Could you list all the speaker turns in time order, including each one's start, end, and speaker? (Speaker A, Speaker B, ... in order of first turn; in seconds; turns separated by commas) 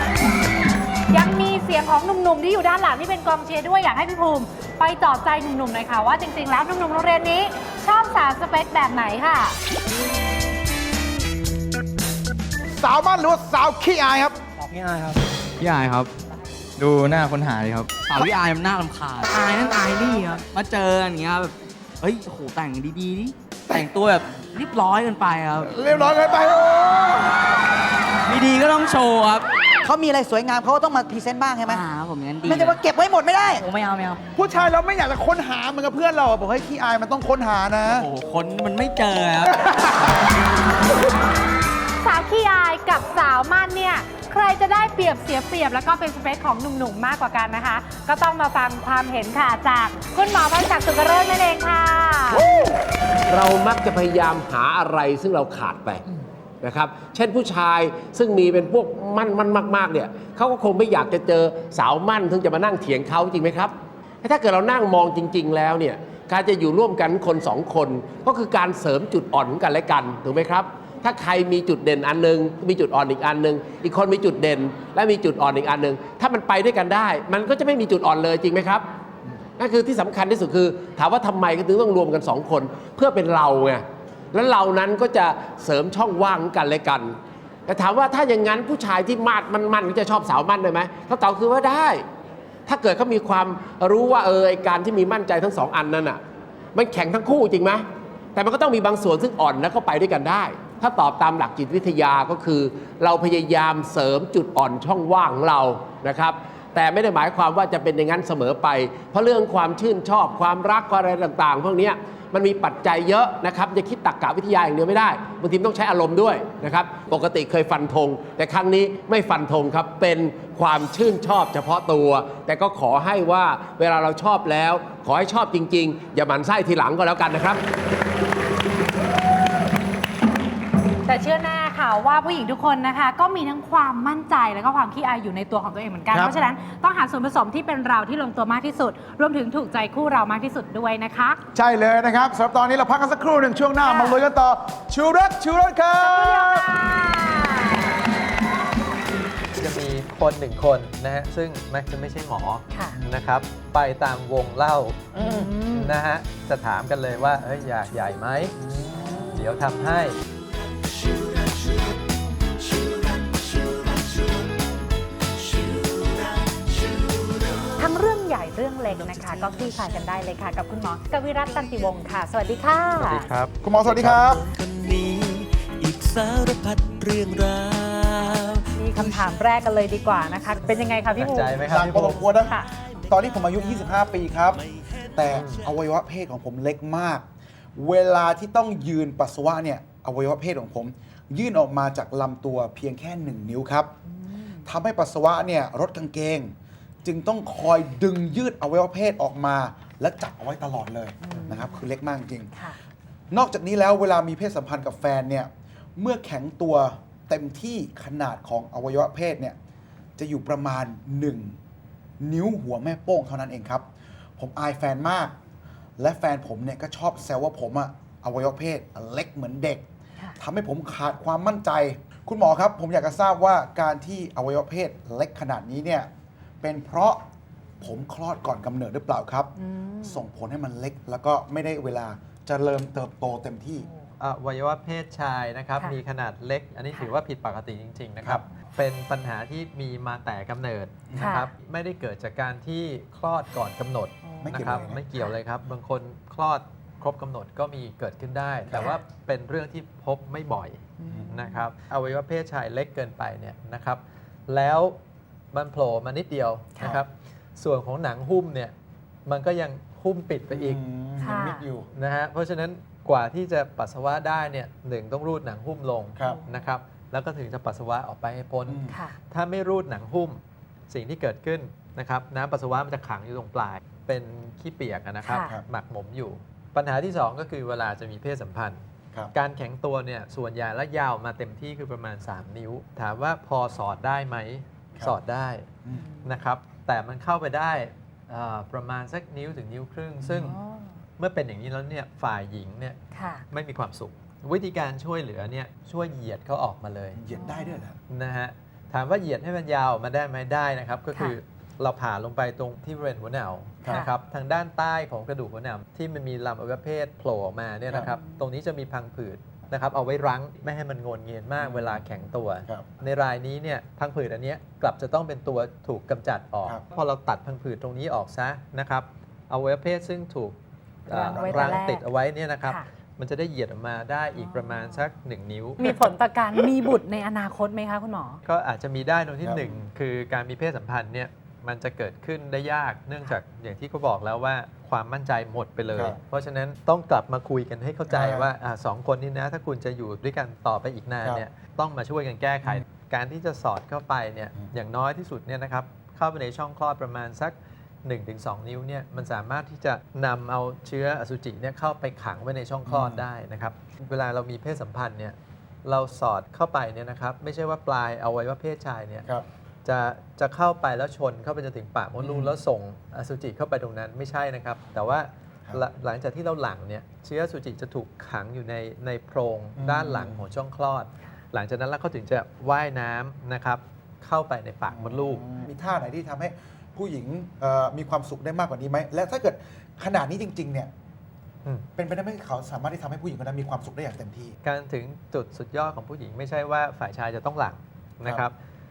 Speaker A: 1.1-9.6, Speaker B: 12.7-14.4, Speaker C: 14.7-16.1, Speaker C: 16.8-26.2, Speaker B: 25.6-27.2, Speaker C: 28.3-29.4, Speaker D: 29.9-31.8, Speaker C: 31.7-32.8, Speaker D: 32.5-33.6, Speaker C: 33.6-34.2, Speaker B: 34.3-38.1, Speaker C: 37.8-39.8, Speaker A: 42.0-52.4, Speaker E: 52.3-52.7, Speaker E: 53.3-56.0, Speaker E: 56.6-78.8, Speaker E: 79.6-92.0, Speaker E: 92.7-96.2, Speaker E: 96.7-127.6, Speaker A: 131.1-141.4, Speaker B: 136.1-136.3, Speaker B: 141.5-146.7, Speaker A: 143.8-144.2, Speaker A: 146.0-147.9, Speaker F: 149.6-155.0, Speaker A: 152.7-153.0, Speaker B: 155.1-155.5, Speaker A: 155.2-156.0, Speaker F: 155.7-158.5, Speaker B: 158.6-159.4, Speaker F: 159.3-160.2, Speaker G: 165.6-166.4, Speaker A: 167.8-173.3, Speaker F: 172.9-174.2, Speaker B: 173.6-174.4, Speaker G: 174.7-177.3, Speaker A: 178.7-181.5, Speaker F: 181.1-182.2, Speaker B: 181.6-182.6, Speaker B: 183.1-193.9, Speaker F: 185.3-185.7, Speaker B: 194.6-196.5, Speaker B: 197.0-202.5, Speaker A: 201.2-201.8, Speaker B: 203.3-209.6, Speaker B: 210.2-211.6, Speaker B: 212.2-213.9, Speaker B: 214.4-215.3, Speaker B: 216.0-219.8, Speaker B: 220.4-226.1, Speaker B: 226.6-227.2, Speaker B: 227.8-233.9, Speaker A: 229.6-230.2, Speaker F: 234.2-255.0, Speaker B: 241.1-241.4, Speaker A: 241.1-241.5, Speaker B: 244.4-245.0, Speaker B: 248.7-248.9, Speaker B: 251.0-251.4, Speaker F: 255.5-258.7, Speaker F: 259.2-260.8, Speaker B: 260.5-261.9, Speaker A: 261.2-261.7, Speaker F: 261.9-278.8, Speaker B: 268.7-269.0, Speaker A: 268.9-269.2, Speaker A: 275.2-275.5, Speaker F: 279.3-285.7, Speaker F: 286.2-290.6, Speaker B: 290.2-290.6, Speaker F: 291.2-293.0, Speaker A: 293.1-293.4, Speaker F: 293.5-297.2, Speaker B: 297.1-297.9, Speaker A: 297.4-297.7, Speaker F: 298.1-325.9, Speaker B: 307.9-308.1, Speaker B: 311.6-312.0, Speaker A: 321.1-322.1, Speaker A: 324.4-324.9, Speaker A: 325.8-328.4, Speaker F: 328.4-359.3, Speaker B: 329.4-329.7, Speaker B: 338.1-338.5, Speaker B: 352.8-353.2, Speaker F: 359.8-375.4, Speaker B: 362.2-362.6, Speaker B: 369.8-370.4, Speaker B: 374.9-380.9, Speaker B: 381.9-384.5, Speaker F: 384.6-388.6